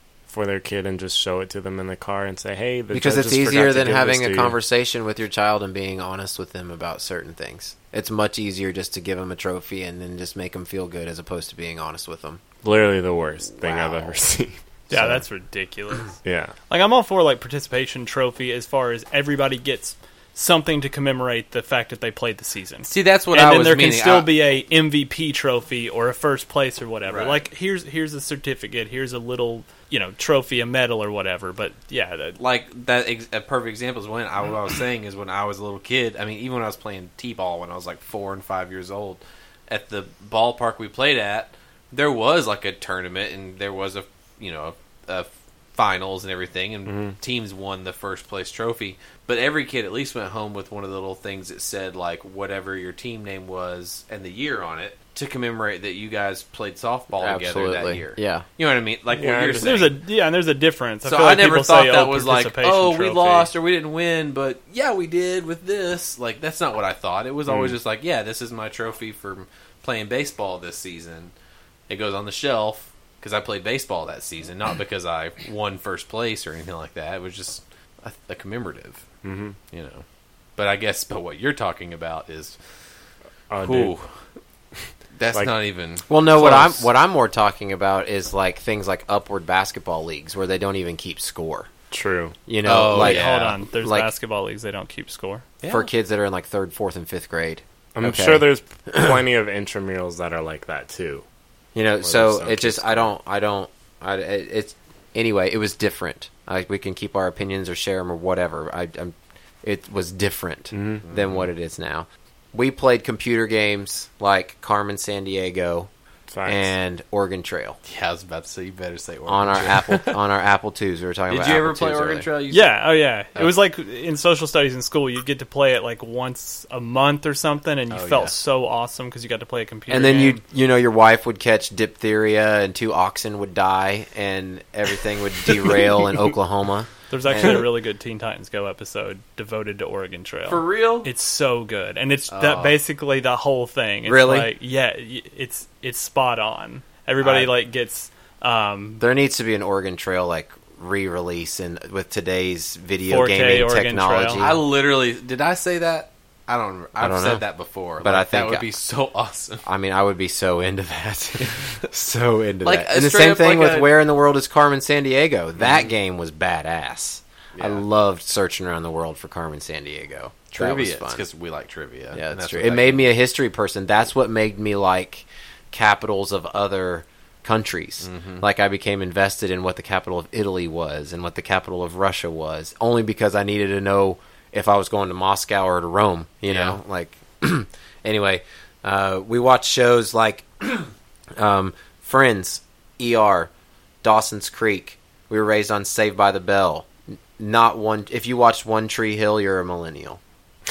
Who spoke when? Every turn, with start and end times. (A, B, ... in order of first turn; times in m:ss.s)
0:00.3-0:04.6 A
0:02.9-0:12.4 B
0:12.6-0:14.6 A
0:13.6-0:14.1 C
0:14.9-0:16.2 D
0:16.2-0:16.5 A
0:16.7-0:32.4 D
0:22.9-0:24.3 C
0:27.1-0:27.4 C
0:32.4-1:00.0 C
0:57.2-0:58.4 B
0:59.1-0:59.8 A
0:59.6-1:03.5 D
1:01.0-1:11.3 C
1:11.9-1:19.0 C
1:19.2-1:19.6 A
1:19.7-1:20.0 C
1:20.6-1:22.6 C
1:23.5-1:23.9 A
1:23.6-1:24.2 C
1:25.1-1:26.9 C
1:26.1-1:31.7 B
1:31.9-1:32.3 A
1:32.5-1:34.1 B
1:32.6-1:33.6 C
1:32.9-1:35.4 D
1:35.6-1:35.9 C
1:35.7-1:39.1 B
1:38.0-1:41.2 A
1:41.7-1:55.9 B
1:42.1-1:43.0 C
1:42.2-1:42.5 A
1:50.7-1:51.0 A
1:51.0-1:51.5 C
1:56.3-1:56.7 A
1:56.4-1:57.8 B
1:57.8-2:00.2 C
1:59.3-2:02.2 B
2:01.3-2:02.7 C
2:02.5-2:10.4 D
2:07.9-2:08.3 C
2:09.9-2:17.6 B
2:17.1-2:29.0 D
2:20.5-2:21.1 C
2:22.3-2:22.8 C
2:24.0-2:24.5 B
2:29.0-2:34.6 B
2:33.1-2:34.4 D
2:34.4-2:39.6 C
2:37.0-2:37.4 B
2:38.0-2:38.6 B
2:39.6-2:51.2 B
2:41.4-2:41.7 C
2:42.6-2:43.9 C
2:45.6-2:45.9 C
2:47.5-2:47.8 C
2:50.5-2:53.1 C
2:52.1-3:13.5 B
2:58.0-2:58.4 C
3:06.5-3:06.8 C
3:14.0-3:20.2 B